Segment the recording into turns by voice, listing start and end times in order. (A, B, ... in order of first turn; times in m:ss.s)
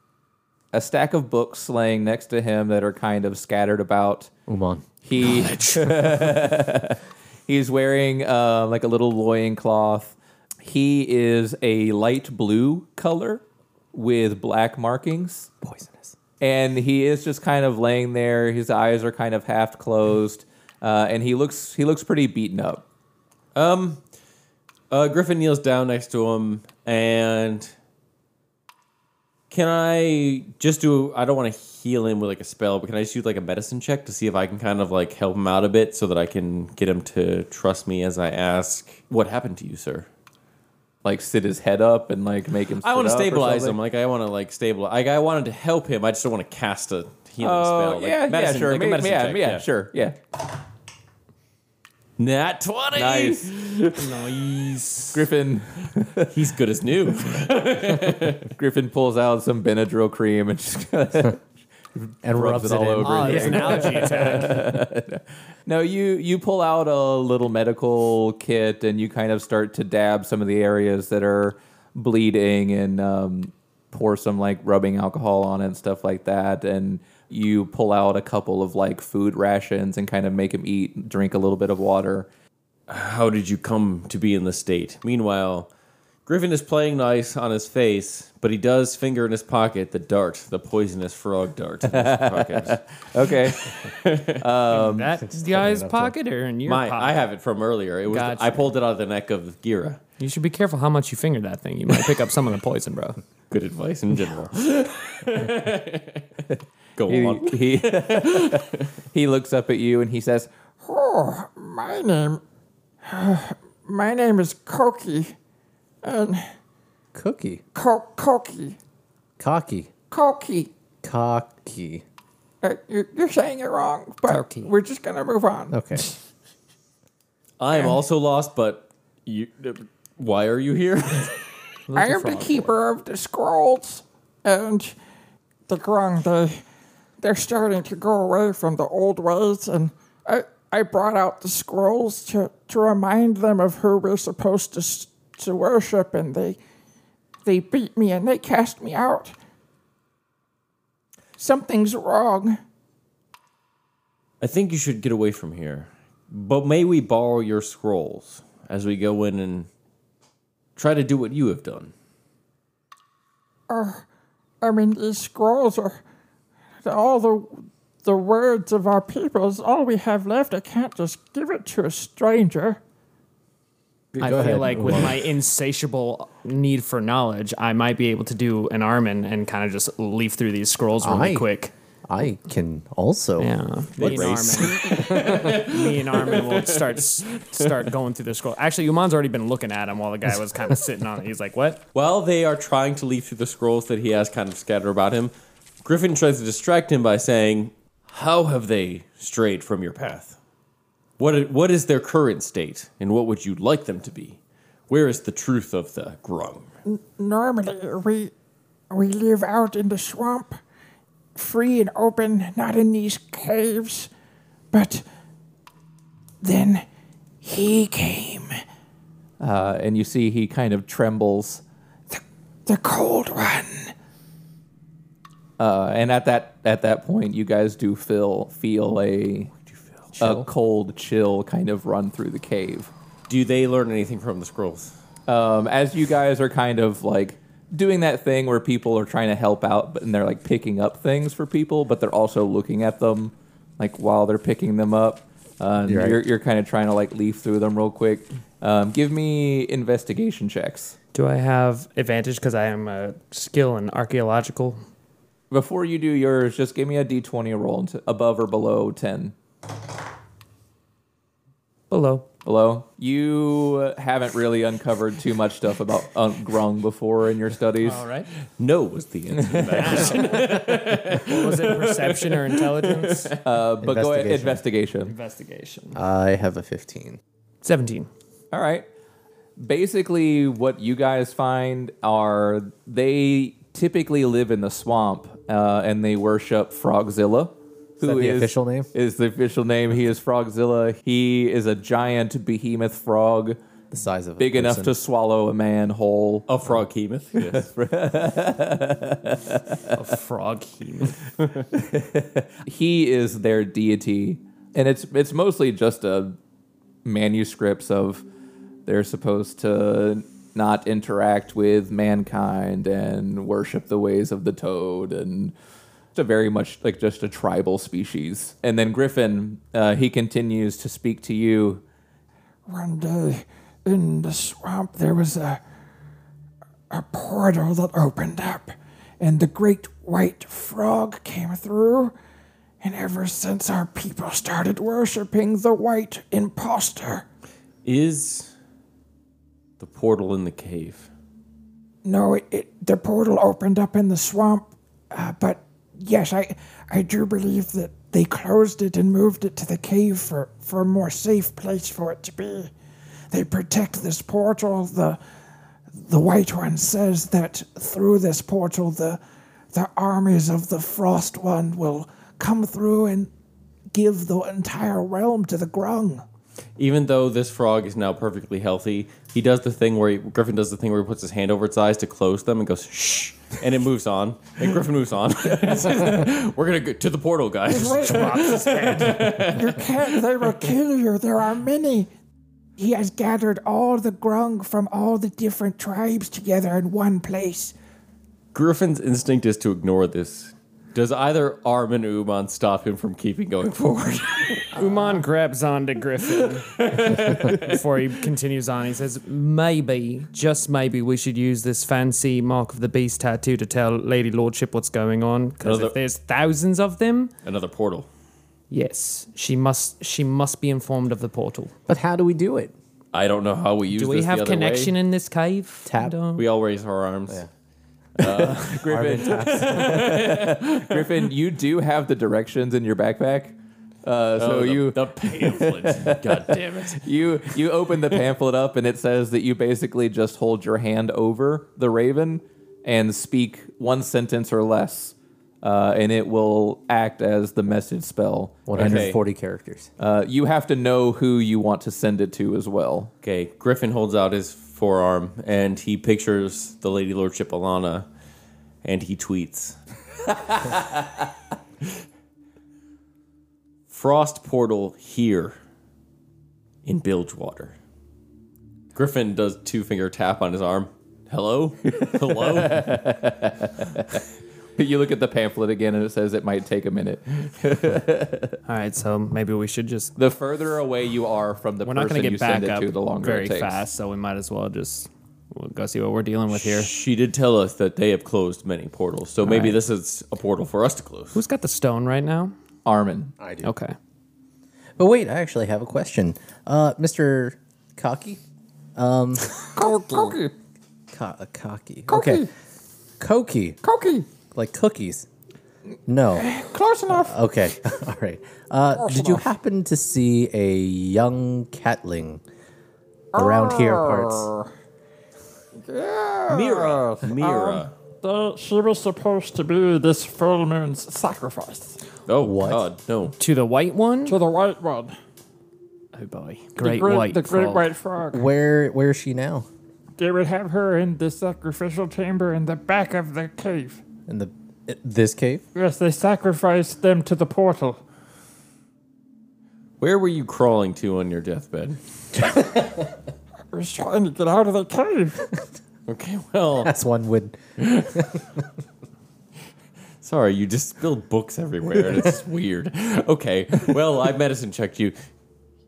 0:00.7-0:04.3 A
0:04.5-0:05.3 B
0:05.0-0:15.5 A
0:15.6-0:16.1 B
0:16.4-0:22.8 A
0:23.5-0:24.0 C
0:24.9-0:27.7 C
0:29.5-0:40.1 C
0:41.0-0:43.8 A
0:42.8-0:49.6 C
0:47.4-0:50.2 A
0:52.2-0:54.1 C
0:52.9-0:53.6 A
0:54.0-0:55.2 D
0:55.1-0:56.3 A
0:56.3-0:58.5 C
0:58.4-1:01.4 A
1:02.0-1:22.3 A
1:02.2-1:04.6 B
1:03.0-1:04.7 D
1:22.9-1:25.7 C
1:26.2-1:34.4 C
1:31.9-1:35.1 A
1:34.7-1:37.2 D
1:35.2-1:36.1 B
1:36.6-1:40.0 C
1:38.1-1:38.7 D
1:40.2-1:43.2 D
1:43.5-1:46.2 C
1:47.0-1:48.8 C
1:47.1-1:50.5 A
1:50.8-1:52.4 E
1:53.0-1:55.3 E
1:56.0-1:56.4 E
1:57.1-1:57.6 B
1:57.7-1:58.8 E
1:59.4-1:59.9 B
2:00.1-2:00.7 E
2:01.0-2:02.0 B
2:02.6-2:06.1 E
2:04.3-2:04.7 D
2:05.7-2:06.0 B
2:07.6-2:11.4 C
2:07.7-2:08.0 E
2:11.9-2:12.7 D
2:11.9-2:15.0 E
2:15.7-2:16.6 E
2:17.2-2:26.6 E
2:27.4-2:29.3 E
2:31.4-2:32.6 E
2:34.4-2:39.7 C
2:40.8-2:41.9 C
2:43.7-2:44.0 E
2:44.6-2:46.0 E
2:46.8-2:52.8 E
2:54.2-2:55.3 B
2:54.2-3:01.7 D
3:01.0-3:01.5 B
3:02.0-3:05.5 B
3:03.4-3:11.8 D
3:04.0-3:07.9 C
3:11.9-3:20.4 C
3:21.2-3:24.4 C
3:24.9-3:26.7 C
3:26.8-3:28.3 E
3:28.9-3:30.6 E
3:31.3-3:34.1 E
3:34.7-3:35.0 E
3:36.4-3:36.8 E
3:37.4-3:38.5 E
3:39.4-3:41.6 A
3:42.1-3:43.9 E
3:45.6-3:49.5 A
3:50.2-3:50.5 B
3:50.2-3:52.9 A
3:53.3-3:54.9 C
3:55.3-4:11.0 A
4:05.9-4:06.2 B
4:11.1-4:14.8 D
4:15.5-4:19.3 A
4:21.9-4:22.3 D
4:22.4-4:28.0 A
4:27.8-4:28.3 D
4:28.6-4:33.4 C
4:29.7-4:33.3 D
4:33.4-4:35.1 A
4:33.8-4:34.6 B
4:35.0-4:36.0 D
4:35.9-4:37.2 B
4:37.6-4:38.1 D
4:38.5-4:38.9 A
4:39.6-4:53.6 A
4:48.0-4:48.9 B
4:53.9-4:55.0 B
4:54.4-4:56.5 A
4:56.5-4:57.7 C
4:57.3-4:59.9 A
4:59.9-5:01.2 D
5:01.7-5:06.4 A
5:07.0-5:08.2 A
5:08.8-5:15.5 A
5:16.1-5:21.8 A
5:22.7-5:25.6 E
5:26.9-5:32.1 E
5:32.8-5:37.2 E
5:37.8-5:38.5 C
5:39.8-5:41.1 C
5:42.0-5:52.7 E
5:53.3-5:55.2 E
5:55.9-5:59.2 E
5:59.7-6:03.3 E
6:03.9-6:06.2 E
6:06.8-6:20.1 C
6:17.7-6:19.5 D
6:17.7-6:18.4 E
6:19.5-6:22.1 E
6:22.8-6:27.7 E
6:28.5-6:35.0 C
6:34.7-6:47.3 D
6:36.4-6:37.8 C
6:45.6-6:46.0 C
6:47.4-6:48.1 C
6:48.7-6:51.7 D
6:51.9-6:52.7 B
6:53.1-6:54.9 C
6:53.9-6:56.4 D
6:55.8-6:56.1 B
6:56.4-6:57.4 C
6:58.2-7:01.0 C
6:58.2-7:19.1 A
6:58.7-7:00.2 B
7:04.4-7:07.0 C
7:18.6-7:19.9 B
7:18.8-7:19.2 C
7:20.0-7:23.1 A
7:23.2-7:28.1 C
7:28.8-7:29.8 C
7:33.9-7:35.6 C
7:36.8-7:37.7 C
7:38.9-7:43.0 C
7:41.9-7:44.0 A
7:44.8-7:48.6 A
7:48.6-7:50.1 D
7:50.2-7:53.8 A
7:51.8-7:56.9 D
7:56.5-8:01.4 C
7:59.4-7:59.8 D
8:01.3-8:02.5 D
8:02.8-8:03.3 A
8:03.4-8:03.7 B
8:03.6-8:03.9 D
8:05.0-8:08.4 B
8:08.9-8:09.7 B
8:09.7-8:10.5 E
8:11.1-8:12.5 B
8:12.1-8:12.5 E
8:13.2-8:13.8 B
8:13.8-8:14.2 E
8:14.5-8:15.3 B
8:16.1-8:16.5 B
8:16.4-8:17.3 E
8:17.1-8:22.4 B
8:19.0-8:19.4 E
8:23.3-8:24.7 E
8:23.3-8:24.5 B
8:25.8-8:32.0 E
8:26.5-8:27.9 C
8:32.3-8:33.3 C
8:32.4-8:32.9 B
8:33.4-8:34.4 D
8:34.2-8:35.1 E
8:36.1-8:37.9 D
8:36.8-8:38.4 E
8:38.3-8:39.7 B
8:40.2-8:44.0 E
8:44.3-8:45.6 B
8:45.7-8:48.0 E
8:50.0-8:52.0 C
8:53.7-8:55.5 E
8:56.1-8:56.9 C
8:56.8-8:57.6 B
8:57.8-8:58.3 C
9:00.2-9:05.2 C